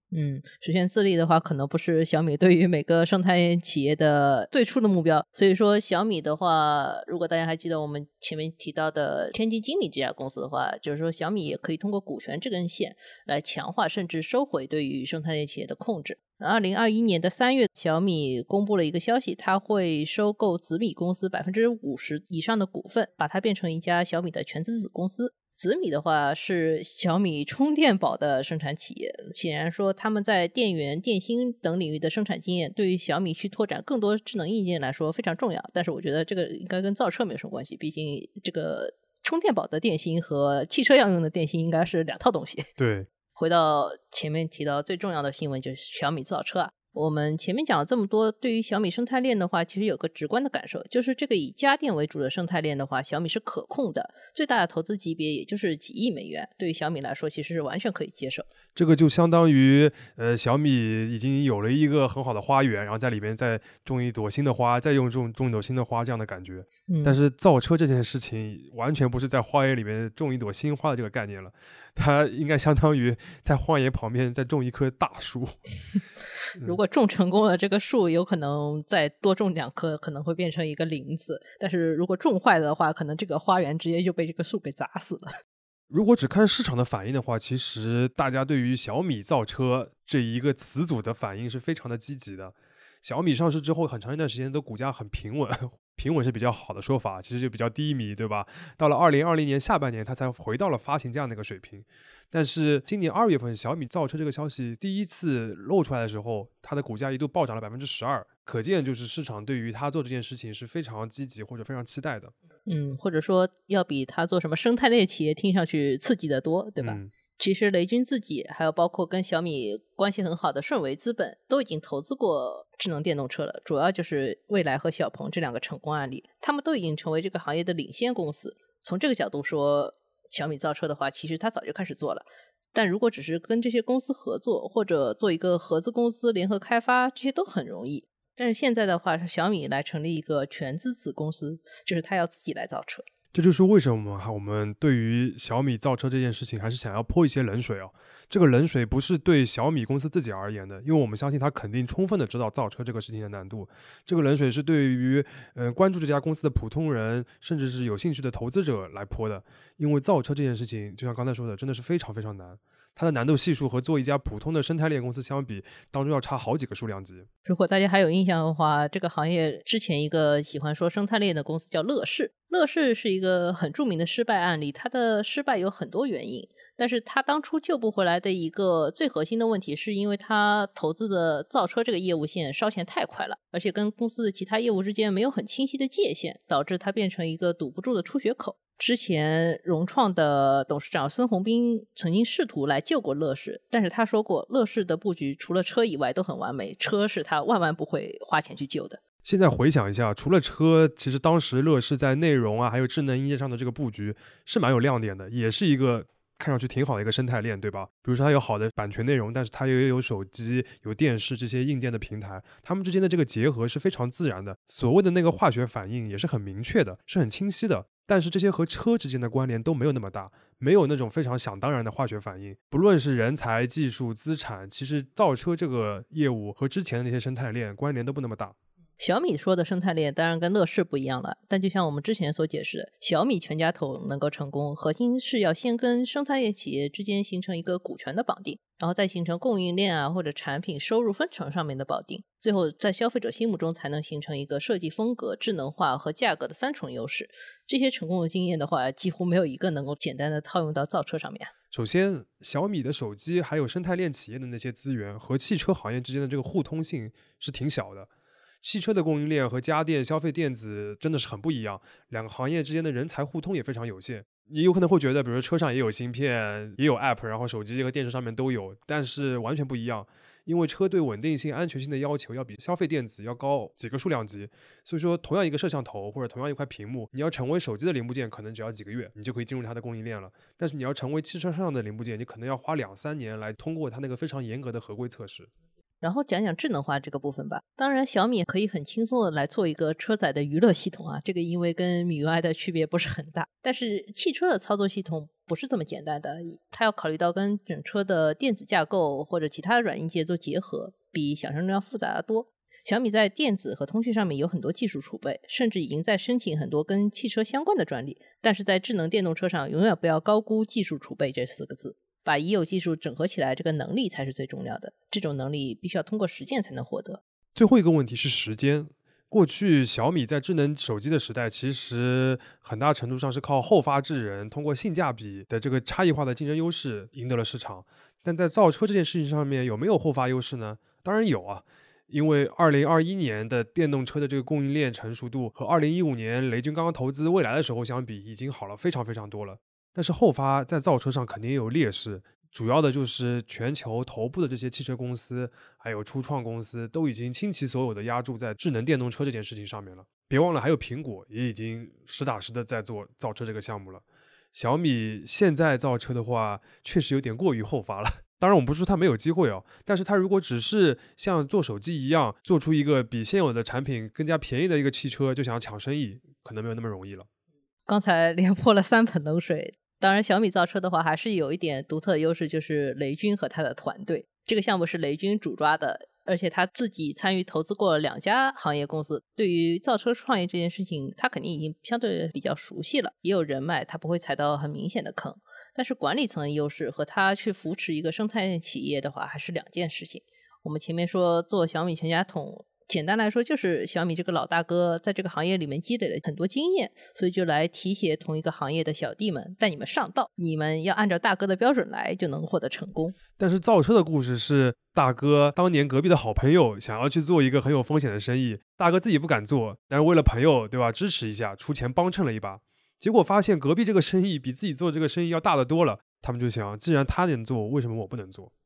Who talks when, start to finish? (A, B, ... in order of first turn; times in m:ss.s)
0:00.1-0:42.7 A
0:42.8-0:43.1 B
0:43.3-0:58.5 A
0:58.7-1:15.6 B
1:06.9-1:07.2 A
1:16.6-1:25.3 A
1:25.9-1:52.3 B
1:52.6-2:23.0 A
1:56.8-1:57.1 B
2:23.3-2:47.3 B
2:47.4-3:19.0 A
3:19.2-3:48.5 B
3:49.0-4:11.5 A
4:11.7-4:18.1 B
4:18.6-4:45.5 B
4:46.0-5:17.2 A
5:17.5-6:07.3 B
6:07.8-6:43.2 A
6:43.4-6:58.5 B